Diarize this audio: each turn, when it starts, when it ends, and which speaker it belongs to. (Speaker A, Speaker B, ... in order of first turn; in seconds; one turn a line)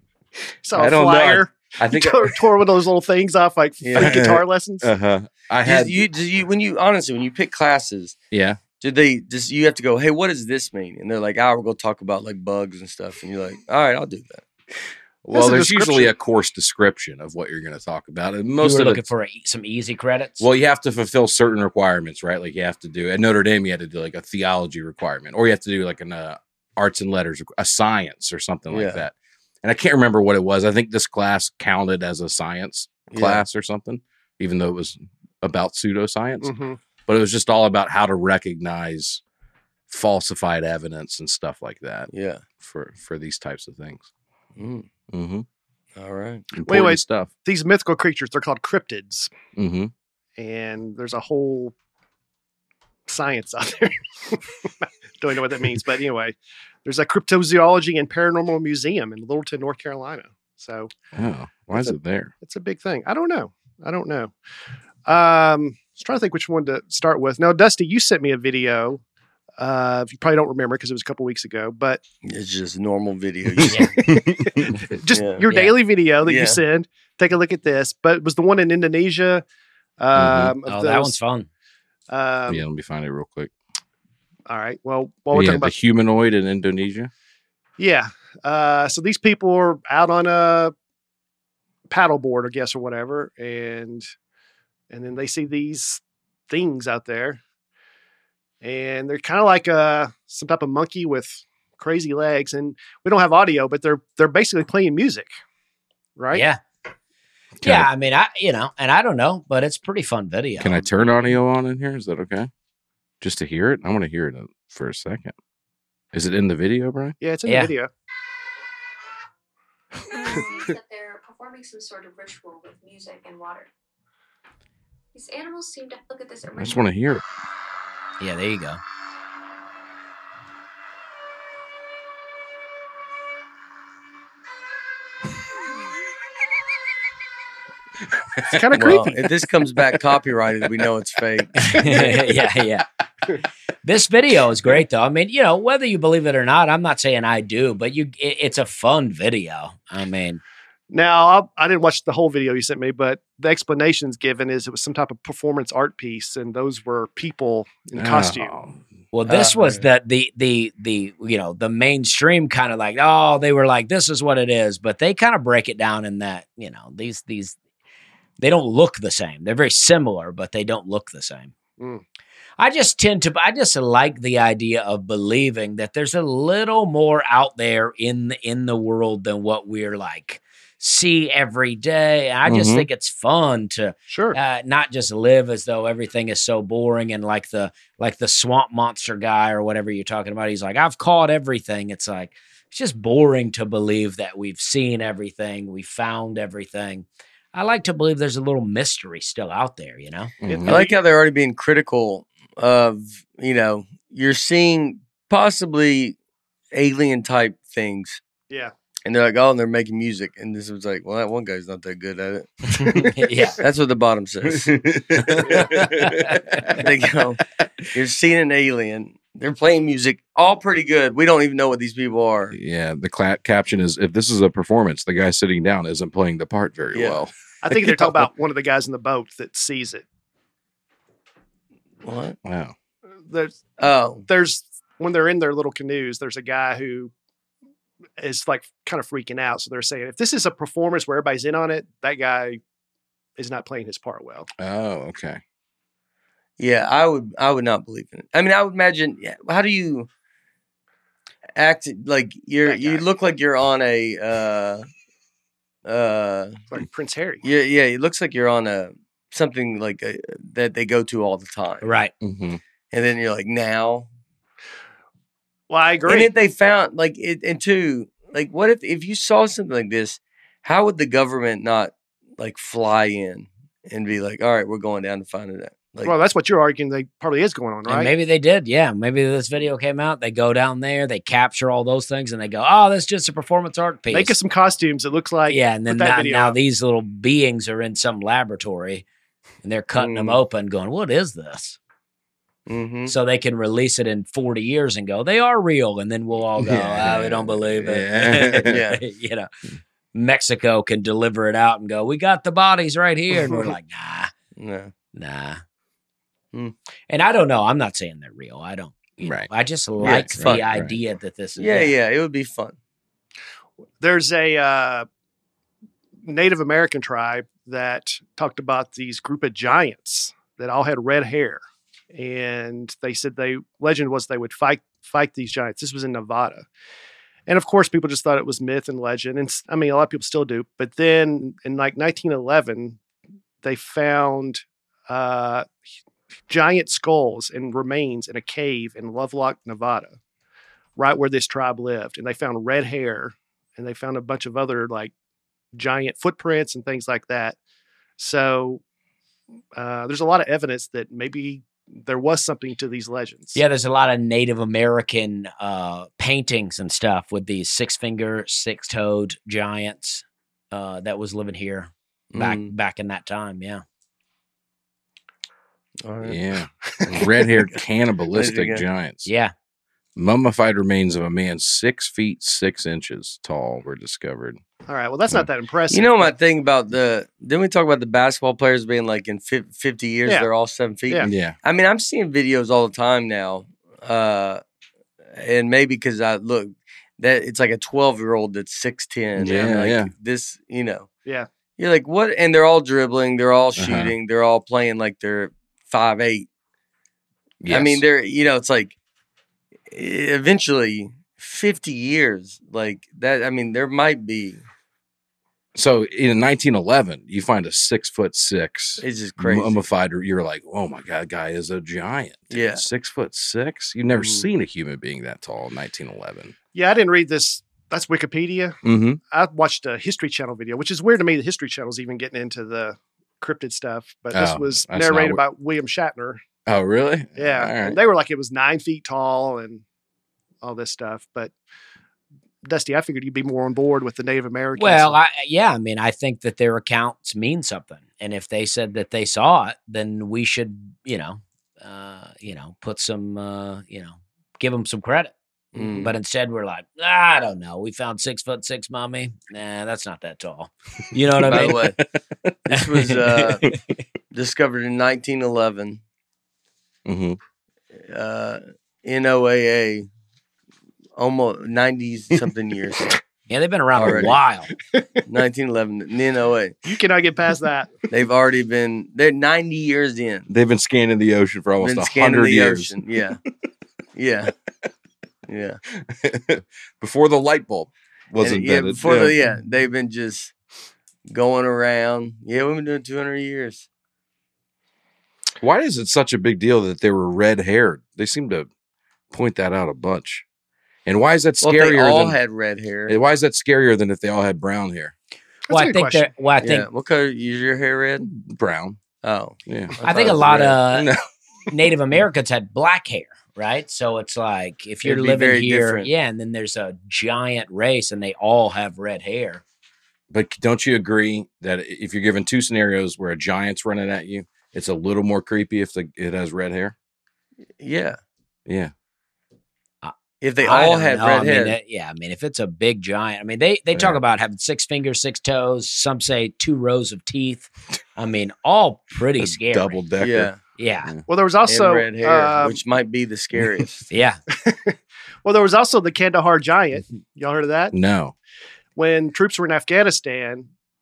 Speaker A: 0.6-4.9
Speaker B: 0.7-2.4
Speaker C: 3.8-4.2
Speaker B: 4.0-6.0
Speaker C: 5.6-8.1
Speaker B: 8.3-8.6
Speaker C: 8.8-14.4
Speaker B: 15.2-19.1
Speaker A: 15.3-16.1
Speaker D: 18.6-20.5
Speaker B: 20.4-36.5
Speaker C: 28.7-29.0
Speaker C: 33.1-33.4
Speaker A: 36.4-36.8
Speaker B: 37.1-39.2
Speaker B: 39.9-44.1
Speaker C: 42.1-42.4
Speaker C: 44.6-44.9
Speaker B: 45.1-45.4
Speaker C: 46.0-46.4
Speaker B: 46.5-47.3
Speaker A: 46.6-49.3
Speaker B: 49.6-49.9
Speaker A: 50.4-51.7
Speaker A: 53.1-60.9
Speaker B: 61.1-62.3
Speaker A: 61.7-64.3
Speaker A: 65.1-69.0
Speaker A: 69.6-72.0
Speaker C: 72.2-73.8
Speaker D: 73.7-74.0
Speaker A: 74.0-79.4
Speaker B: 74.1-74.7
Speaker C: 75.1-75.4
Speaker D: 75.4-75.7
Speaker C: 76.2-76.6
Speaker A: 80.0-81.1
Speaker B: 80.1-80.5
Speaker D: 80.7-81.5
Speaker A: 82.1-82.6
Speaker B: 82.5-83.5
Speaker A: 84.5-85.7
Speaker B: 85.3-87.1
Speaker A: 87.8-90.7
Speaker A: 91.9-94.1
Speaker A: 94.9-97.4
Speaker A: 98.6-105.3
Speaker A: 106.2-106.4
Speaker D: 106.3-106.6
Speaker B: 107.6-107.9
Speaker D: 107.6-110.8
Speaker B: 110.6-112.5
Speaker B: 113.2-115.3
Speaker B: 116.1-117.2
Speaker A: 117.2-117.9
Speaker D: 117.5-117.7
Speaker E: 120.1-123.7
Speaker E: 125.1-126.8
Speaker B: 126.6-127.2
Speaker D: 128.2-128.8
Speaker B: 138.4-138.7
Speaker A: 138.5-139.2
Speaker C: 138.7-141.6
Speaker D: 141.6-142.9
Speaker D: 143.8-150.4
Speaker A: 150.9-158.5
Speaker B: 157.9-158.8
Speaker D: 159.1-167.6
Speaker C: 159.3-159.8
Speaker D: 168.4-171.5
Speaker D: 172.6-200.3
Speaker B: 182.4-182.9
Speaker A: 184.1-184.4
Speaker B: 200.4-200.8
Speaker A: 200.4-200.9
Speaker C: 200.7-206.2
Speaker C: 206.7-208.2
Speaker C: 209.1-212.6
Speaker D: 212.8-213.6
Speaker C: 213.6-214.7
Speaker B: 214.5-216.8
Speaker D: 215.2-216.3
Speaker C: 216.7-217.4
Speaker C: 217.9-222.6
Speaker B: 222.5-228.3
Speaker C: 226.9-227.2
Speaker A: 227.6-230.1
Speaker C: 232.0-232.4
Speaker B: 232.4-232.7
Speaker A: 233.3-233.7
Speaker C: 233.8-234.3
Speaker A: 234.3-237.1
Speaker A: 238.2-242.6
Speaker A: 243.4-244.5
Speaker B: 244.6-245.4
Speaker C: 246.6-250.1
Speaker C: 251.6-254.8
Speaker A: 252.6-253.1
Speaker C: 255.8-256.6
Speaker A: 256.7-257.4
Speaker C: 257.4-261.9
Speaker D: 261.8-262.1
Speaker B: 262.2-262.6
Speaker C: 262.9-264.1
Speaker A: 265.7-266.3
Speaker C: 266.1-276.1
Speaker A: 276.0-278.1
Speaker D: 277.9-284.4
Speaker A: 284.1-286.6
Speaker D: 285.5-289.1
Speaker D: 289.6-291.8
Speaker C: 289.9-290.4
Speaker C: 292.7-293.1
Speaker D: 293.1-299.5
Speaker B: 296.6-298.7
Speaker C: 298.6-299.0
Speaker D: 300.1-304.3
Speaker C: 304.6-304.9
Speaker D: 305.1-305.6
Speaker D: 307.1-311.9
Speaker B: 309.2-310.9
Speaker C: 310.0-310.6
Speaker C: 311.6-312.8
Speaker A: 314.0-315.1
Speaker A: 316.2-321.6
Speaker A: 322.1-326.6
Speaker A: 327.5-333.0
Speaker A: 333.6-335.7
Speaker A: 336.5-340.2
Speaker A: 341.0-345.1
Speaker A: 345.7-347.6
Speaker A: 348.2-348.8
Speaker A: 349.7-353.6
Speaker D: 353.6-363.8
Speaker C: 362.3-362.7
Speaker C: 366.0-366.4
Speaker B: 366.2-369.3
Speaker C: 368.3-368.9
Speaker D: 369.2-369.5
Speaker B: 370.1-374.6
Speaker A: 374.9-376.3
Speaker C: 375.9-384.6
Speaker B: 381.2-381.6
Speaker C: 385.4-391.1
Speaker B: 389.4-390.1
Speaker C: 391.8-396.5
Speaker B: 393.8-394.1
Speaker B: 397.6-398.0
Speaker C: 397.7-398.9
Speaker C: 399.9-404.6
Speaker B: 405.7-416.5
Speaker C: 409.0-409.8
Speaker C: 412.5-412.8
Speaker C: 414.1-414.4
Speaker A: 416.7-418.8
Speaker B: 418.8-419.2
Speaker A: 419.3-426.4
Speaker B: 424.3-425.4
Speaker B: 426.6-428.0
Speaker A: 427.4-429.8
Speaker A: 430.6-431.5
Speaker A: 432.6-435.2
Speaker D: 434.8-445.3
Speaker C: 445.7-446.1
Speaker D: 446.0-452.0
Speaker B: 451.4-451.9
Speaker C: 451.4-452.0
Speaker C: 452.7-453.6
Speaker D: 452.9-453.8
Speaker C: 454.3-456.0
Speaker B: 457.1-457.4
Speaker C: 458.0-460.1
Speaker C: 461.2-463.1
Speaker D: 463.5-464.7
Speaker C: 464.0-464.4
Speaker C: 465.3-466.8
Speaker A: 466.9-467.9
Speaker C: 468.1-470.5
Speaker B: 470.5-473.0
Speaker C: 471.8-473.4
Speaker C: 474.1-474.5
Speaker C: 475.5-475.8
Speaker B: 476.0-479.4
Speaker C: 478.4-480.5
Speaker C: 481.3-483.9
Speaker B: 485.6-488.7
Speaker B: 489.3-490.4
Speaker B: 491.1-492.4
Speaker C: 491.6-493.1
Speaker B: 493.1-495.1
Speaker A: 495.7-496.3
Speaker D: 495.7-496.9
Speaker C: 496.6-498.3
Speaker B: 498.2-499.0
Speaker C: 499.2-500.8
Speaker B: 499.6-501.2
Speaker D: 500.0-501.1
Speaker D: 501.7-509.6
Speaker C: 505.0-506.1
Speaker B: 510.3-516.9
Speaker C: 517.8-518.2
Speaker B: 518.6-518.9
Speaker D: 520.0-530.0
Speaker C: 520.4-521.8
Speaker B: 529.4-530.5
Speaker C: 530.2-530.6
Speaker D: 530.8-531.1
Speaker A: 531.3-532.8
Speaker C: 531.6-534.1
Speaker D: 534.1-534.4
Speaker A: 534.6-537.9
Speaker B: 537.9-538.4
Speaker A: 539.0-540.7